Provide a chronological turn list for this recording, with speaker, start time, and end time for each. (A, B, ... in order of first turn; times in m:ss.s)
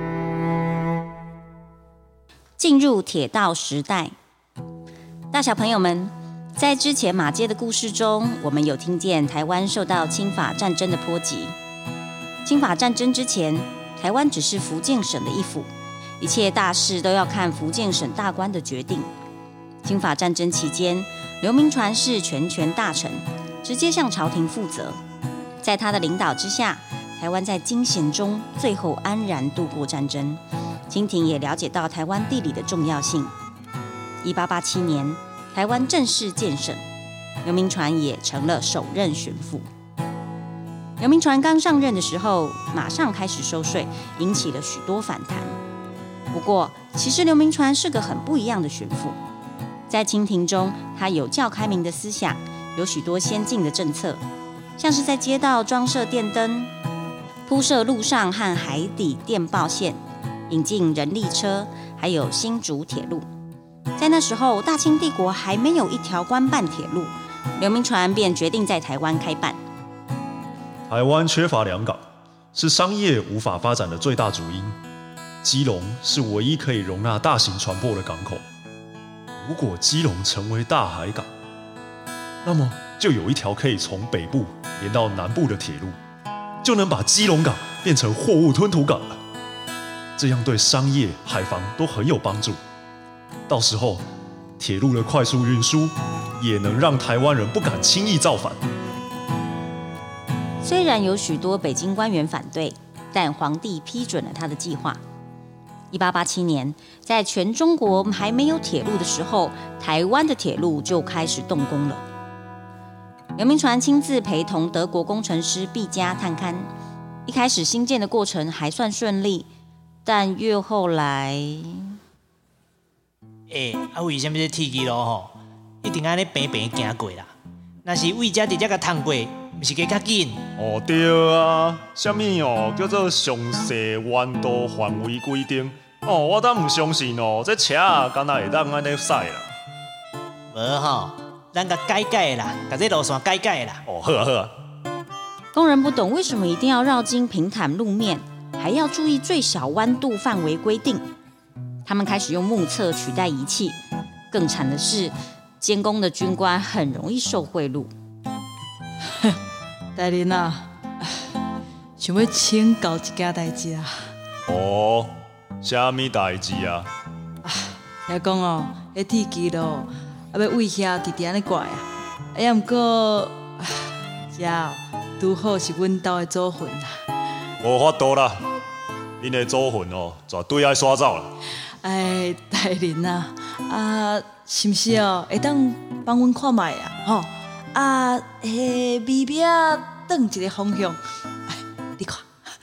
0:02.6-0:04.1 A
0:05.3-0:11.5 A
0:12.4-0:15.7 A
0:16.2-0:19.1 A
0:19.8-0:25.0 A
0:25.6-0:33.3 A
0:34.2-0:36.8 A
0:37.4-0:39.7 A
0:41.0-0:45.6 A
0:46.3-0:49.2 A
0:49.9-0:54.2 A
0:54.8-0:56.7 A
0:57.5-1:00.0 A
1:00.5-1:03.2 A
1:04.0-1:09.6 A
1:10.9-1:12.0 B
1:12.5-1:14.8 B
1:15.4-1:18.4 B
1:19.4-1:21.3 B
1:22.4-1:26.0 B
1:26.6-1:29.2 B
1:30.2-1:32.6 B
1:33.5-1:34.0 B
1:34.6-1:38.6 B
1:40.6-1:45.0 A
1:45.9-1:52.0 A
1:53.4-1:56.7 A
1:57.3-1:59.5 A
2:00.0-2:02.0 A
2:03.5-2:07.3 C
2:07.8-2:10.4 C
2:10.6-2:19.5 B
2:20.5-2:23.8 C
2:23.9-2:24.5 B
2:25.5-2:31.0 A
2:31.8-2:33.8 A
2:34.3-2:37.9 A
2:40.0-2:41.3 D
2:42.0-2:43.9 D
2:44.5-2:46.9 B
2:47.4-2:57.0 D
2:57.6-2:58.5 B
2:59.2-3:01.3 B
3:01.8-3:11.0 D
3:11.5-3:12.3 D